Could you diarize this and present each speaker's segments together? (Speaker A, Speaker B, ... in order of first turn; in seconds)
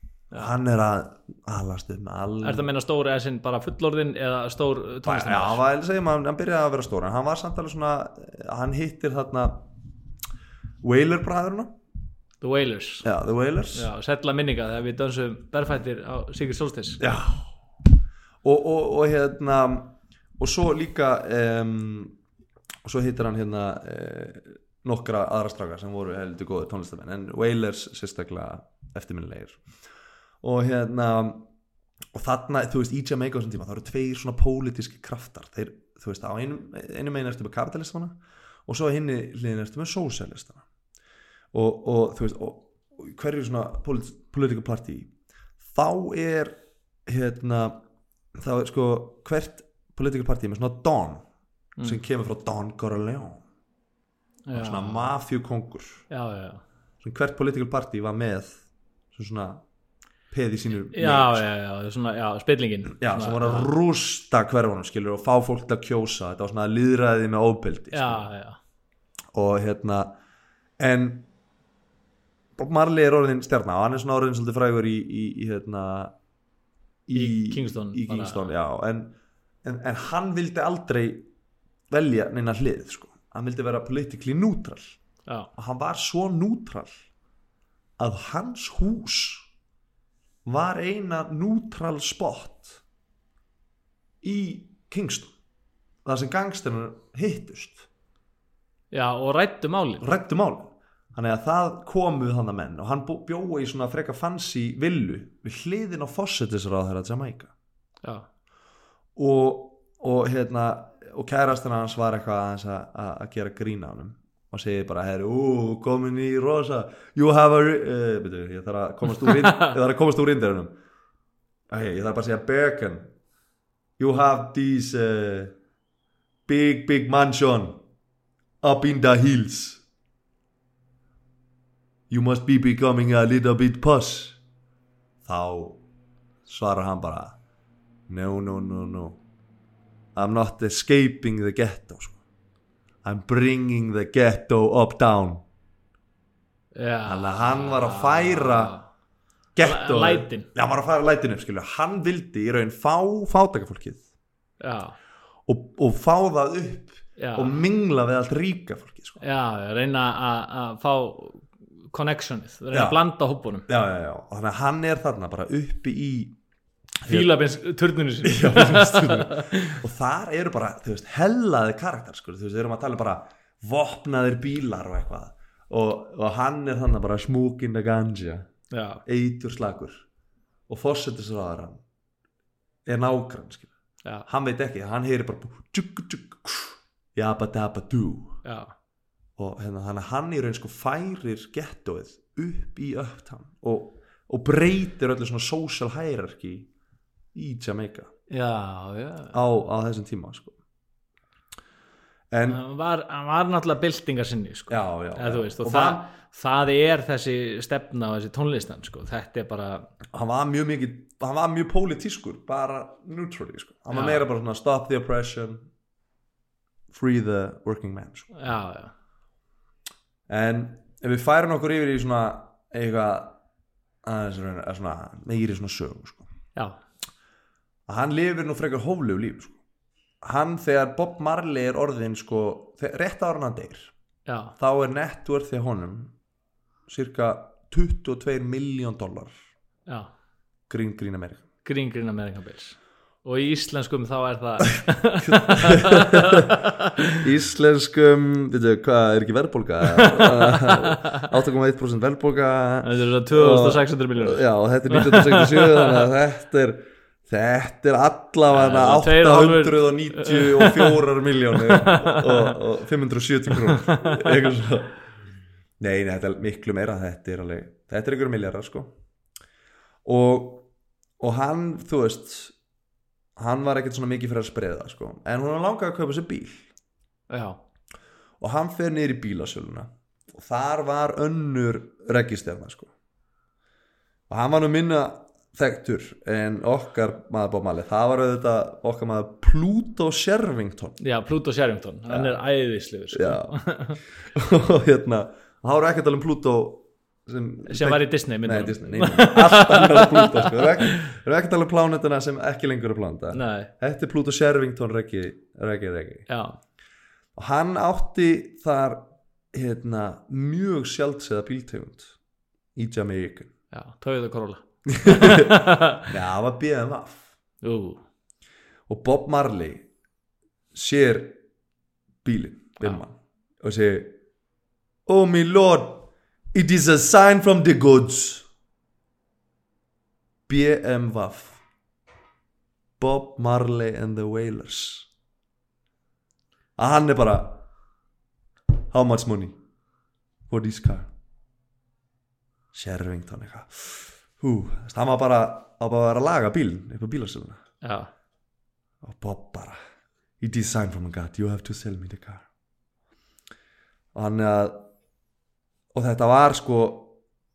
Speaker A: 0.3-2.7, 5.0-9.7, 10.8-11.8, 13.0-13.9, 17.0-17.5, 18.4-22.2, 22.8-29.7, 30.4-31.5, 32.1-40.6, 41.5-45.1, 45.6-47.8, 48.4-51.2, 51.8-53.4, 54.5-56.1, 57.0-59.6, 60.3-61.4, 62.9-68.3, 69.3-70.1, 70.8-71.3, 72.6-76.1, 77.1-81.3, 81.9-85.0, 85.6-87.0, 88.0-89.5, 90.5-92.8, 94.2-95.3, 96.0-97.9, 100.0-107.5, 109.2-120.8, 121.7-123.1, 124.0-125.5, 126.5-127.8, 128.6-129.8, 132.1-134.4, 135.2-135.8, 136.5-137.4, 138.1-139.2, 140.2-142.2, 143.0-145.4, 147.1-148.7, 149.6-154.0, 155.5-159.2, 162.7-163.0, 163.7-166.4, 167.0-167.4, 168.2-178.5, 179.1-180.0, 180.7-181.8, 182.9-183.7, 184.3-188.4, 189.4-196.7, 197.3-198.1, 199.3-200.6, 202.3-202.6, 204.7-206.1, 210.1-215.7, 216.9-218.3, 220.3-223.4, 224.0-226.3, 227.9-229.6, 230.2-233.9, 234.6-236.1, 236.9-239.4, 240.7-241.4, 245.2-246.6, 247.2-265.0, 265.8-268.9, 270.1-270.7, 271.2-272.6, 273.4-276.7, 278.4-282.9, 284.3-291.0, 292.1-292.4, 293.1-293.5, 294.3-306.3, 307.4-312.1, 312.8-313.5, 314.9-317.3, 318.9-319.9, 320.7-321.4, 322.2-324.2, 325.1-328.5, 330.5-331.6, 333.0-335.1, 336.8-337.6, 338.9-339.6, 340.5-341.1, 342.7-347.6, 349.0-349.8, 350.4-352.5, 354.1-354.9, 355.9-357.2
Speaker B: 2.4-5.6, 12.4-13.1, 13.7-17.0, 54.5-55.1, 56.1-56.6, 60.9-63.7, 67.9-68.6, 77.1-78.5, 98.9-100.0, 119.2-119.8, 146.8-148.8, 149.6-150.5, 154.6-155.0, 157.2-157.5, 159.2-163.7, 167.1-169.8, 178.7-179.0, 188.4-188.7, 198.3-199.3, 202.4-209.9, 213.9-214.2, 218.3-218.9, 234.3-234.5, 241.6-247.2, 249.9-251.2, 252.8-256.1, 258.5-261.0, 261.6-262.6, 263.6-264.4, 277.3-277.6, 291.0-294.0, 297.7-301.0, 303.3-303.7, 306.3-306.6, 313.7-316.1, 317.6-318.0, 347.8-348.1